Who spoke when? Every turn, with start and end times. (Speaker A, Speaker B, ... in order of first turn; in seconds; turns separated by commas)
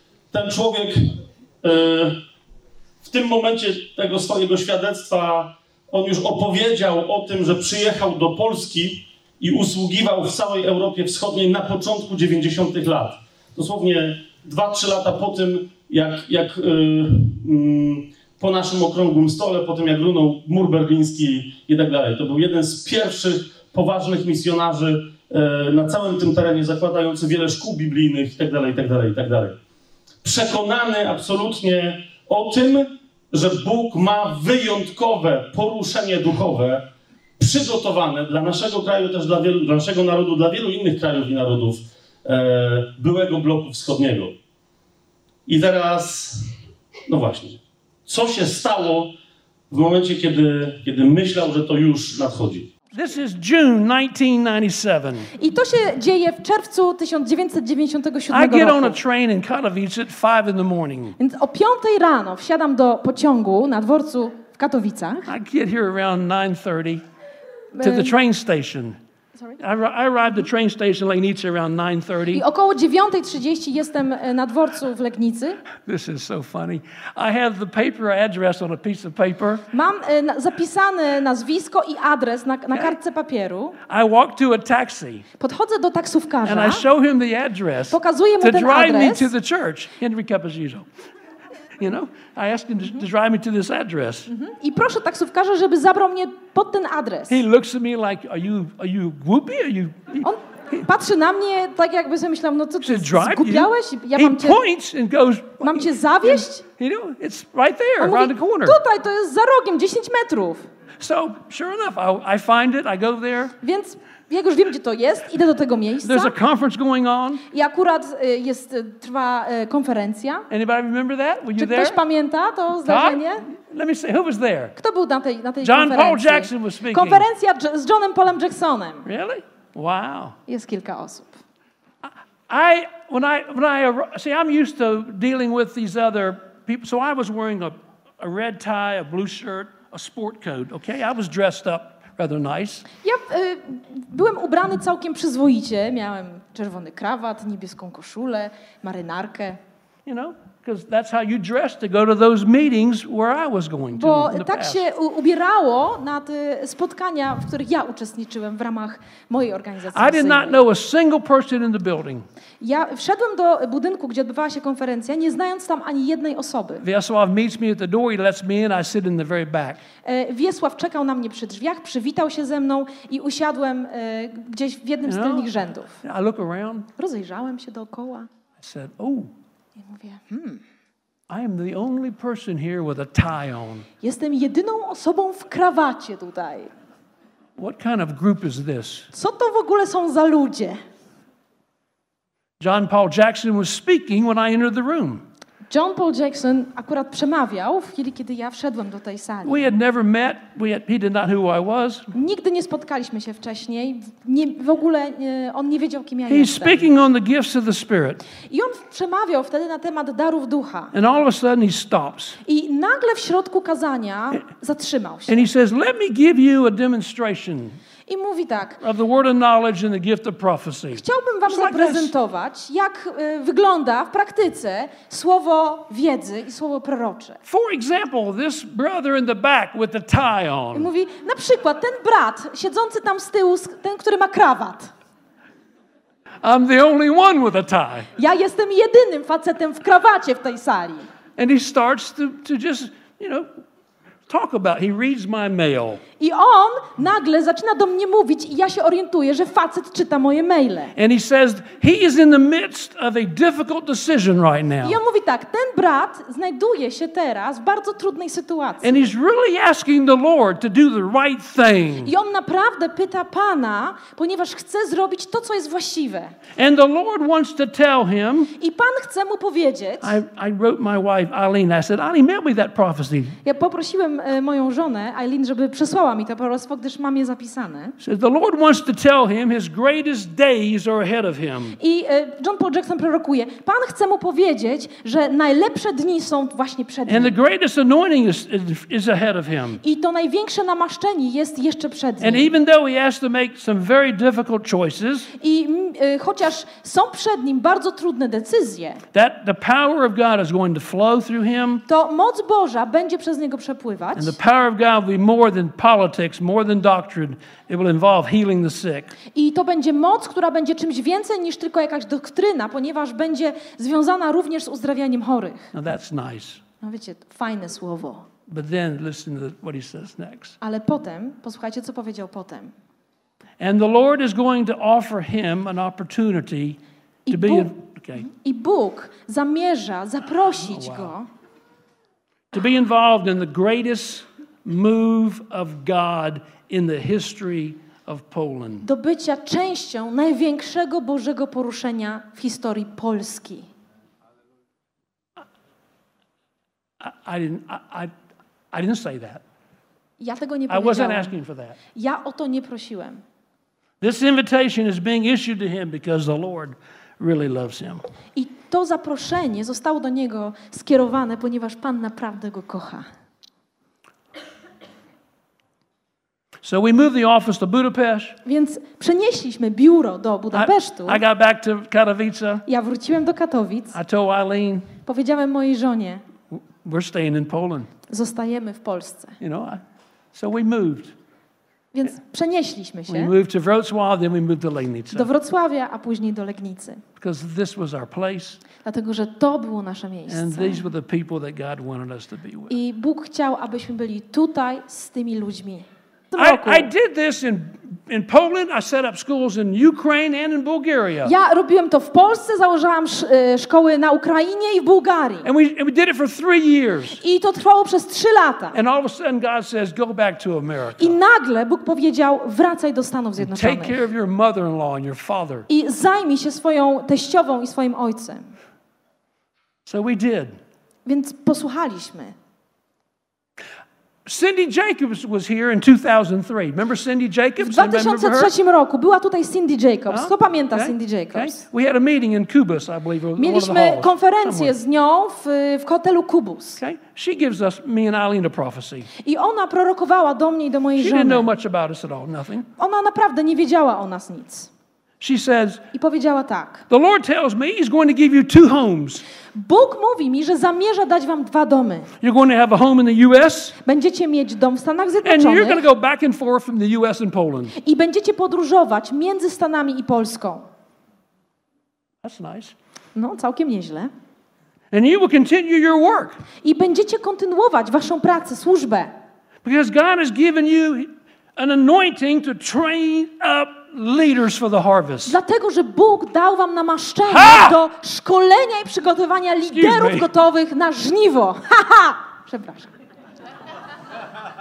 Speaker A: 0.3-2.2, Speaker A: 3.0-29.6, Speaker A: 30.2-36.9, Speaker A: 37.4-44.4, Speaker A: 45.5-46.5, Speaker A: 47.1-49.1, Speaker A: 49.7-52.7, Speaker B: 52.9-55.3, Speaker C: 55.4-59.0, Speaker B: 58.3-61.2, Speaker C: 61.2-65.3, Speaker B: 65.3-67.0, Speaker C: 67.8-68.1, Speaker B: 67.8-69.0, Speaker B: 69.6-72.4, Speaker C: 72.3-75.6, Speaker B: 75.9-79.7, Speaker C: 79.7-83.8, Speaker B: 83.9-85.2, Speaker C: 85.4-86.8, Speaker B: 86.5-90.9, Speaker C: 87.9-89.3, Speaker B: 91.8-94.3, Speaker C: 94.3-97.4, Speaker B: 97.3-100.8, Speaker C: 100.2-104.6, Speaker B: 102.8-108.8, Speaker C: 105.6-106.6, Speaker C: 108.0-110.7, Speaker B: 111.0-113.6, Speaker C: 113.6-116.3, Speaker B: 116.0-117.4, Speaker C: 117.5-120.5, Speaker B: 120.5-122.0, Speaker C: 121.6-123.5, Speaker B: 122.9-124.7, Speaker C: 124.8-129.1, Speaker B: 125.6-127.3, Speaker B: 129.1-130.3, Speaker C: 130.5-131.4, Speaker B: 132.5-142.8, Speaker C: 143.0-149.6, Speaker B: 150.1-154.8, Speaker C: 153.9-160.6, Speaker B: 159.9-162.2, Speaker C: 162.6-166.8, Speaker B: 166.8-169.8, Speaker C: 170.1-176.0, Speaker B: 175.1-175.5, Speaker B: 176.0-176.9, Speaker C: 177.0-178.3, Speaker B: 178.6-179.3, Speaker C: 179.8-180.6, Speaker B: 181.3-183.9, Speaker C: 184.0-186.7, Speaker B: 187.6-189.1, Speaker C: 189.1-190.8, Speaker B: 192.6-195.2, Speaker C: 195.7-199.7, Speaker B: 199.4-202.1, Speaker C: 202.1-206.8, Speaker B: 206.3-208.2, Speaker C: 208.5-210.9, Speaker B: 210.9-212.4, Speaker C: 212.4-215.4, Speaker B: 215.3-217.8, Speaker C: 218.1-218.8, Speaker B: 218.8-222.1, Speaker C: 221.0-227.4, Speaker B: 227.5-230.9, Speaker C: 230.7-234.9, Speaker B: 236.4-238.1, Speaker C: 238.2-241.1, Speaker B: 241.4-243.5, Speaker B: 244.3-246.0, Speaker C: 246.2-250.9, Speaker B: 251.0-255.0, Speaker C: 254.8-259.0, Speaker B: 258.8-262.1, Speaker C: 262.0-266.4, Speaker B: 266.6-268.5, Speaker C: 268.6-270.2, Speaker B: 270.0-273.4, Speaker C: 273.4-277.9, Speaker B: 278.0-281.8, Speaker C: 281.8-287.3, Speaker B: 287.1-289.8, Speaker C: 289.8-292.5, Speaker B: 292.2-295.3, Speaker C: 295.4-299.0, Speaker B: 299.1-301.8, Speaker C: 301.9-304.4, Speaker B: 304.2-309.2, Speaker C: 309.3-315.7, Speaker B: 315.7-316.6, Speaker C: 316.8-318.3, Speaker B: 318.5-320.6, Speaker C: 320.6-322.7, Speaker B: 323.6-328.3, Speaker C: 327.3-331.3, Speaker B: 330.6-331.1, Speaker B: 332.5-338.9, Speaker C: 338.8-343.7, Speaker B: 347.0-348.1, Speaker B: 348.7-349.4, Speaker C: 350.2-351.3, Speaker B: 350.7-351.8, Speaker C: 351.9-353.2, Speaker B: 354.0-358.0, Speaker C: 358.4-363.1, Speaker B: 366.6-368.4, Speaker C: 368.4-371.2, Speaker B: 370.5-372.6, Speaker C: 372.7-374.0, Speaker B: 373.9-374.9, Speaker C: 375.1-376.2, Speaker B: 376.5-377.9, Speaker C: 378.1-379.4, Speaker B: 379.4-379.8, Speaker B: 380.3-381.1, Speaker C: 381.9-383.3, Speaker B: 383.1-385.3, Speaker C: 385.1-387.0, Speaker B: 387.2-388.6, Speaker C: 388.8-390.8, Speaker B: 390.3-392.7, Speaker C: 392.7-396.9, Speaker B: 396.4-401.3, Speaker C: 401.2-405.5, Speaker B: 405.4-407.2, Speaker C: 407.2-408.8, Speaker B: 408.7-411.2, Speaker C: 411.0-414.0, Speaker B: 413.4-415.7, Speaker C: 415.7-418.5, Speaker B: 419.9-420.6, Speaker C: 421.1-422.4, Speaker B: 424.3-428.5, Speaker C: 427.6-431.6, Speaker B: 430.1-434.7, Speaker C: 433.4-436.8, Speaker B: 436.8-439.1, Speaker C: 439.2-441.5, Speaker B: 441.0-442.7, Speaker C: 442.8-444.7, Speaker B: 445.2-445.8, Speaker C: 445.9-446.9, Speaker B: 446.9-449.2, Speaker C: 449.5-452.1, Speaker B: 452.2-453.8, Speaker C: 453.8-455.8, Speaker B: 455.2-457.7, Speaker C: 457.8-460.7, Speaker B: 462.2-462.7, Speaker C: 463.2-464.1, Speaker B: 464.9-466.4, Speaker C: 466.6-469.1, Speaker B: 469.6-475.4, Speaker C: 475.3-482.9, Speaker B: 477.3-477.8, Speaker B: 479.7-480.3